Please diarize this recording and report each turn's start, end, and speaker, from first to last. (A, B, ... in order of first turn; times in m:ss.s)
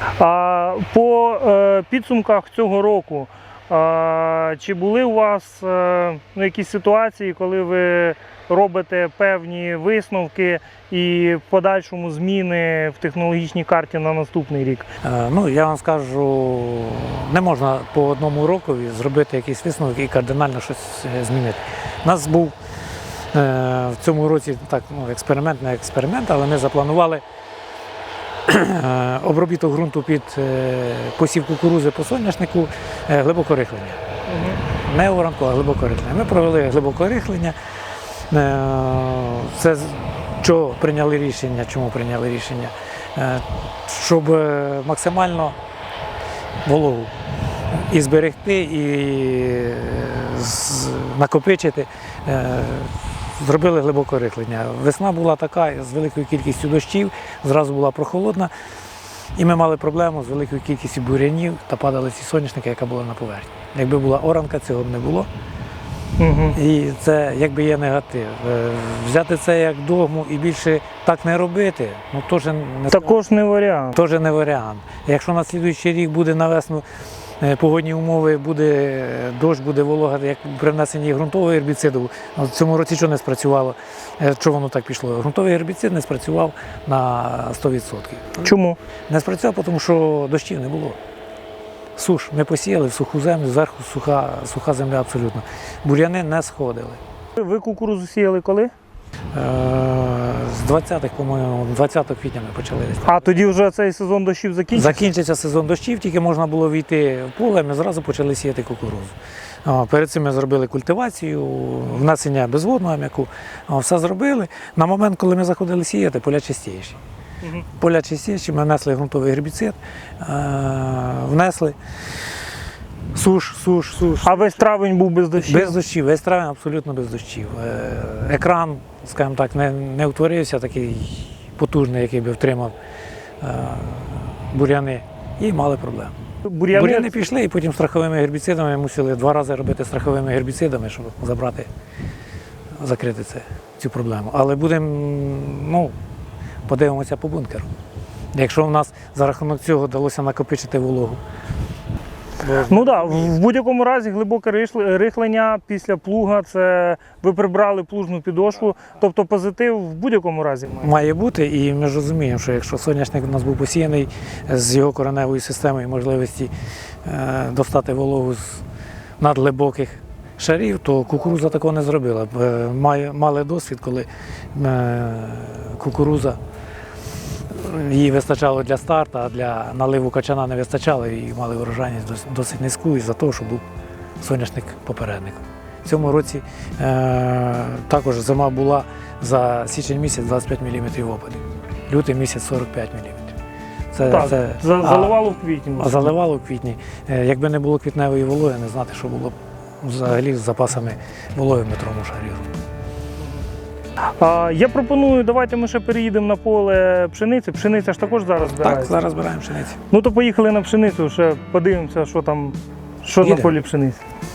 0:00.2-0:14.9 A
0:15.0-0:22.6 B
0:23.3-0:27.2 B
0:28.5-0:34.0 B
0:34.3-0:34.6 A
0:34.7-0:37.6 B
0:38.3-0:45.6 B
0:46.6-0:47.1 B
0:47.7-0:58.5 B
0:59.4-1:05.3 B
1:06.2-1:06.6 A
1:06.5-1:13.2 B
1:12.9-1:14.0 A
1:13.9-1:16.8 B
1:17.4-1:28.5 B
1:28.4-1:28.8 A
1:29.1-1:31.0 B
1:32.0-1:37.0 B
1:37.4-1:38.7 A
1:39.3-1:43.3 B
1:43.0-1:45.0 A
1:44.7-1:57.0 B
1:57.8-2:01.8 B
2:03.1-2:04.6 B
2:04.2-2:05.8 A
2:05.4-2:12.7 B
2:13.4-2:16.1 B
2:16.4-2:17.3 A
2:16.7-2:21.7 B
2:22.8-2:26.0 B
2:26.7-2:27.7 B
2:28.3-2:31.2 B
2:32.4-2:33.3 B
2:32.7-2:41.0 A
2:40.8-2:46.5 B
2:47.0-2:48.6 B
2:49.2-2:56.4 B
2:57.5-3:03.6 B
3:04.2-3:13.4 B
3:13.9-3:15.2 B
3:14.0-3:16.1 A
3:15.8-3:22.5 B
3:24.2-3:28.9 A
3:28.6-3:29.8 B
3:29.9-3:34.0 A
3:33.2-3:33.5 B